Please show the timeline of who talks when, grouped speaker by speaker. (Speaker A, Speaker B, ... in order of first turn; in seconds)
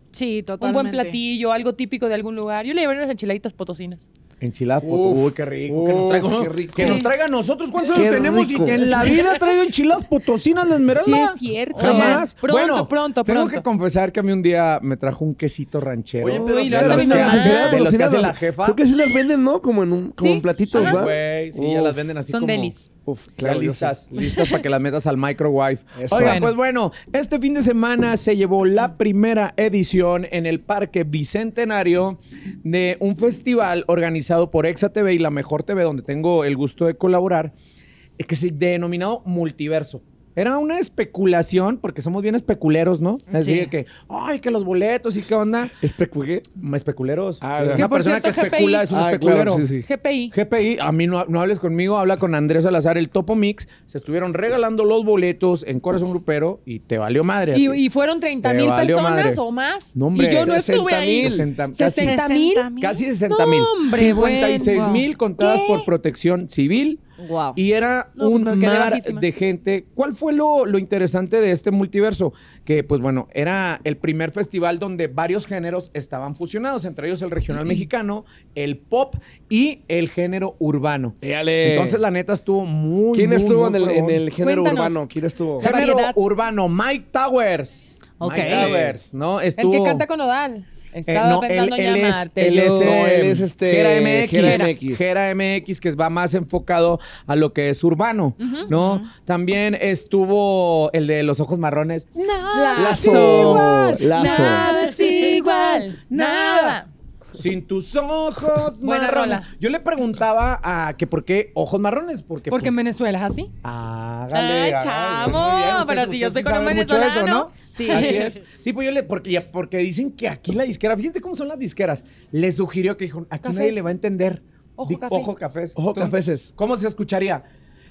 Speaker A: 0.1-1.2, 43.3-43.7, 61.9-63.0, 67.2-67.6, 88.2-88.7, 98.7-99.1, 117.8-118.4
Speaker B: 0.6-4.1, 6.8-7.1, 7.8-9.5, 10.9-13.6, 16.4-17.8, 20.2-21.0, 22.3-22.9, 26.1-26.5, 47.7-48.9, 49.8-50.3, 57.5-62.7, 63.3-65.9, 68.2-69.2, 84.4-85.0, 85.6-86.2, 89.6-92.9, 94.4-94.7, 98.4-98.7, 102.5-106.9, 108.8-109.5, 112.5-113.5, 114.3-118.3, 123.4-123.8, 124.8-125.3
Speaker C: 4.4-18.8, 20.7-22.7, 23.4-37.5, 38.2-45.8, 46.6-49.7, 50.3-57.8, 58.4-59.4, 59.9-60.5, 61.2-62.2, 62.8-67.0, 67.5-84.2, 85.6-90.0, 91.1-106.8, 107.3-112.7, 113.6-127.4
Speaker D: 4.8-7.1, 7.9-9.1, 11.8-12.2, 16.2-22.0, 23.1-24.0, 25.9-26.5, 45.8-46.5, 47.4-47.9, 48.9-49.9, 60.4-61.5, 81.2-82.0, 83.1-85.7, 88.4-89.0, 92.6-95.1, 102.8-104.7, 125.8-126.5